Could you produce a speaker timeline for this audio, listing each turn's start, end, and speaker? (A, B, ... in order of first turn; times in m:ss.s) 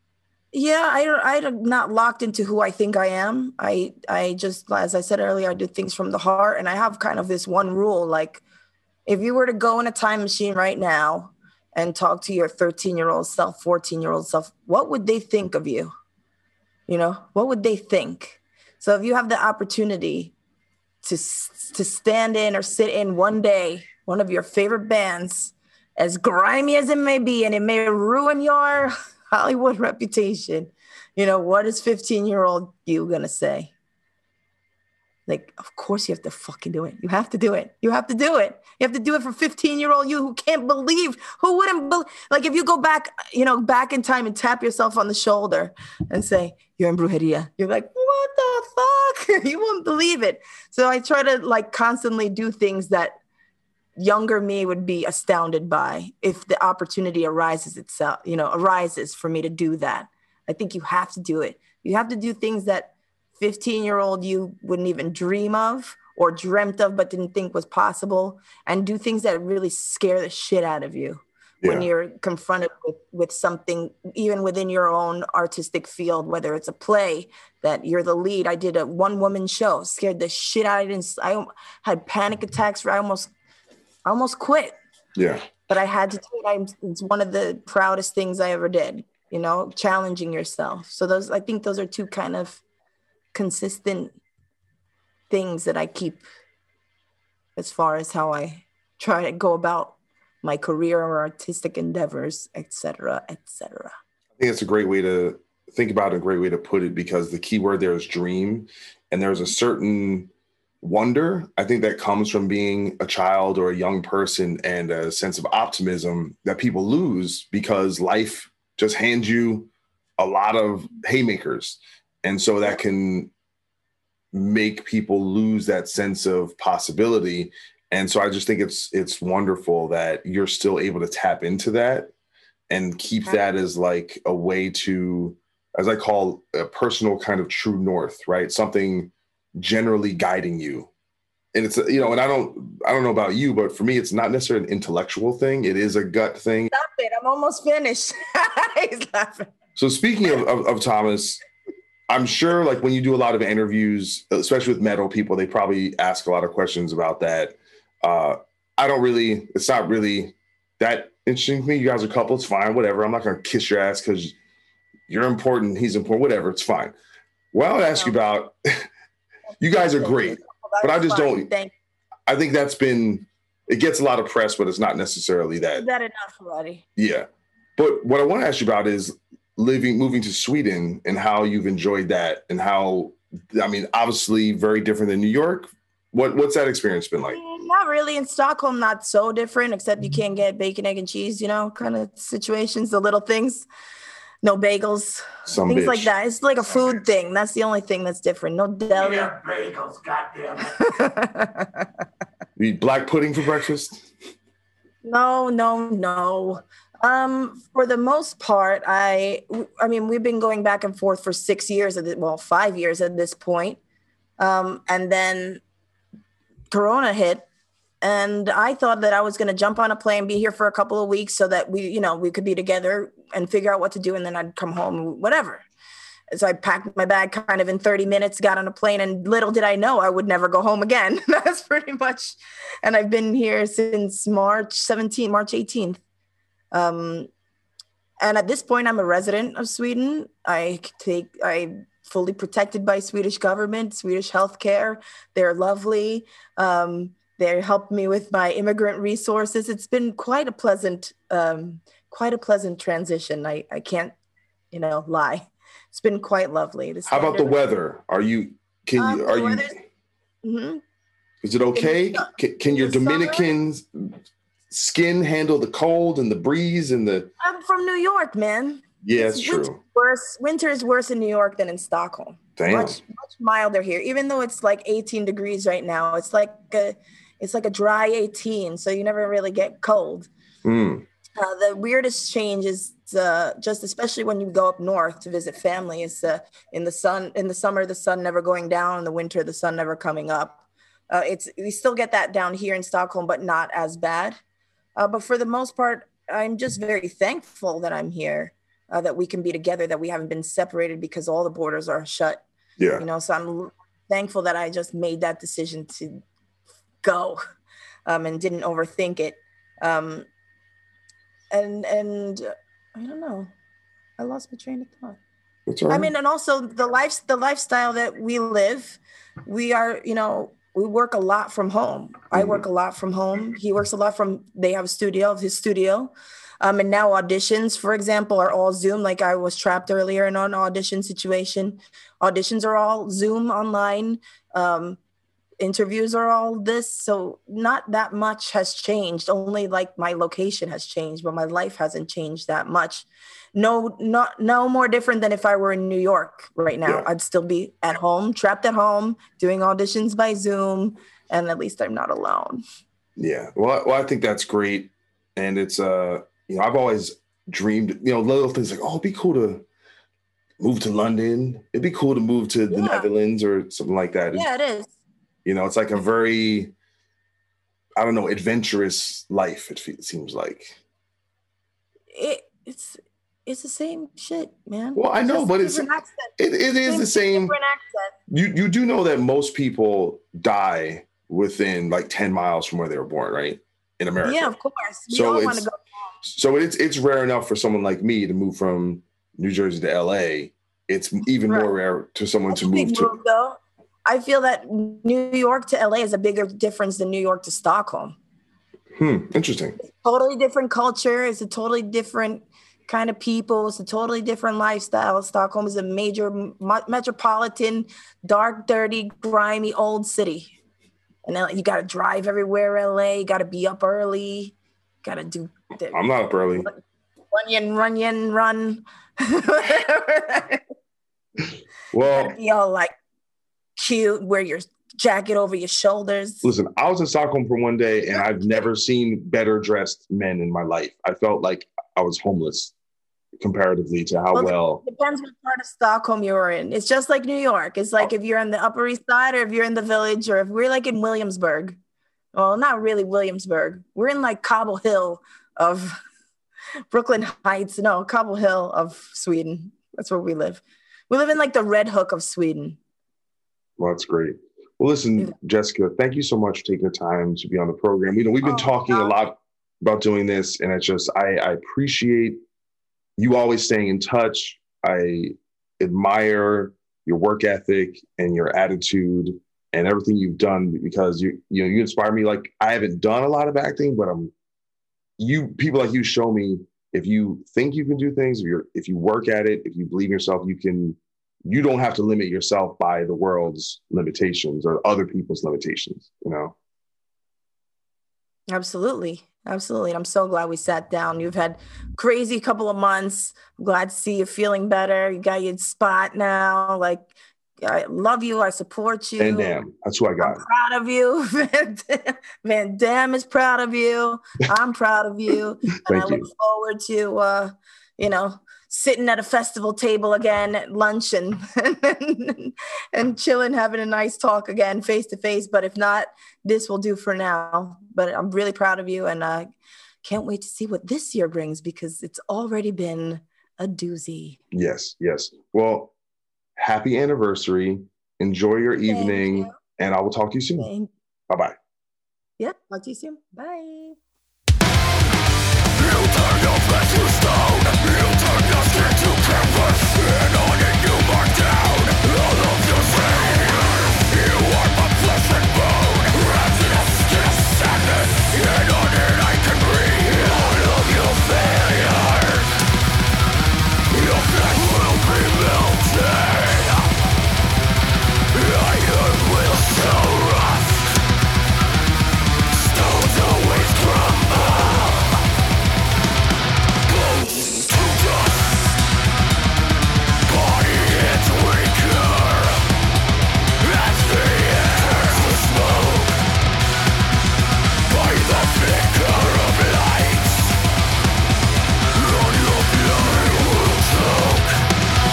0:00.5-0:08.4 A
0:09.1-0:15.9 A
0:16.9-0:20.3 A
0:21.0-0:33.7 A
0:35.3-0:53.2 A
0:54.0-1:23.3 A
1:11.6-1:11.9 B
1:24.0-1:24.7 A
1:25.2-1:25.4 B
1:25.7-1:32.6 A
1:33.3-1:34.1 A
1:35.3-1:36.2 A
1:37.6-1:43.9 A
1:44.4-1:50.3 B
1:50.8-2:03.3 B
2:04.3-2:12.1 B
2:12.7-2:20.9 B
2:21.5-2:26.7 B
2:26.7-2:29.5 A
2:29.8-2:31.4 B
2:32.1-2:44.3 B
2:45.1-2:46.9 B
2:47.5-2:48.8 B
2:49.6-2:51.5 B
2:49.7-2:51.7 A
2:52.3-2:55.8 B
2:55.7-2:56.8 A
2:57.0-3:07.4 B
3:07.3-3:13.6 A
3:14.4-3:20.0 A
3:15.5-3:16.1 B
3:20.6-3:21.8 A
3:22.6-3:24.1 B
3:25.0-3:33.8 A
3:34.4-3:35.6 A
3:36.7-3:37.4 A
3:38.0-3:45.6 A
3:46.3-3:56.0 A
3:56.7-3:57.3 A
3:58.2-4:14.1 A
4:14.7-4:17.6 A
4:17.1-4:19.8 B
4:19.0-4:19.7 A
4:20.4-4:20.8 A
4:21.4-4:24.1 B
4:21.7-4:23.5 A
4:24.7-4:27.3 B
4:27.4-4:40.3 A
4:29.0-4:29.8 B
4:32.6-4:33.0 B
4:40.6-4:41.0 B
4:41.4-4:54.4 A
4:55.0-5:02.4 A
5:02.8-5:03.0 B
5:03.0-5:06.2 A
5:07.0-5:07.4 A
5:08.0-5:10.2 A
5:11.5-5:13.5 A
5:14.2-5:15.2 A
5:15.7-5:16.1 B
5:15.9-5:35.0 A
5:22.3-5:22.6 B
5:35.6-5:52.6 A
5:53.2-5:59.6 B
6:00.6-6:04.4 B
6:02.7-6:03.1 A
6:04.3-6:04.9 A
6:05.4-6:06.7 B
6:08.0-6:10.8 B
6:12.1-6:16.3 A
6:15.0-6:17.5 B
6:16.8-6:18.1 A
6:18.3-6:24.5 B
6:24.2-6:26.1 A
6:25.1-6:25.7 B
6:26.2-6:33.1 B
6:31.4-6:31.7 A
6:32.5-6:38.2 A
6:39.0-6:39.8 B
6:39.8-6:50.5 A
6:51.2-6:56.8 A
6:55.9-6:56.7 B
6:57.3-7:00.6 A
7:01.9-7:02.4 B
7:02.0-7:02.9 A
7:03.8-7:06.4 A
7:06.4-7:12.7 B
7:08.1-7:08.5 A
7:13.4-7:14.8 B
7:14.3-7:21.8 A
7:22.3-7:26.0 A
7:26.9-7:32.8 A
7:33.8-7:42.4 B
7:38.4-7:39.2 A
7:43.2-7:54.3 B
7:55.2-8:06.5 B
8:08.5-8:17.1 A
8:17.6-8:19.6 A
8:19.2-8:20.4 B
8:20.2-8:39.5 A
8:25.8-8:26.2 B
8:40.0-8:44.4 A
8:44.5-8:45.9 B
8:46.6-8:50.7 B
8:48.9-8:49.5 A
8:50.6-8:50.9 A
8:51.3-8:51.5 B
8:52.4-8:54.0 A
8:55.8-9:12.5 C
9:13.9-9:16.9 C
9:18.3-9:20.8 C
9:22.6-9:25.1 C
9:26.9-9:28.7 C
9:30.3-9:32.6 C
9:33.6-9:36.2 C
9:37.9-9:40.5 C
9:41.9-9:44.5 C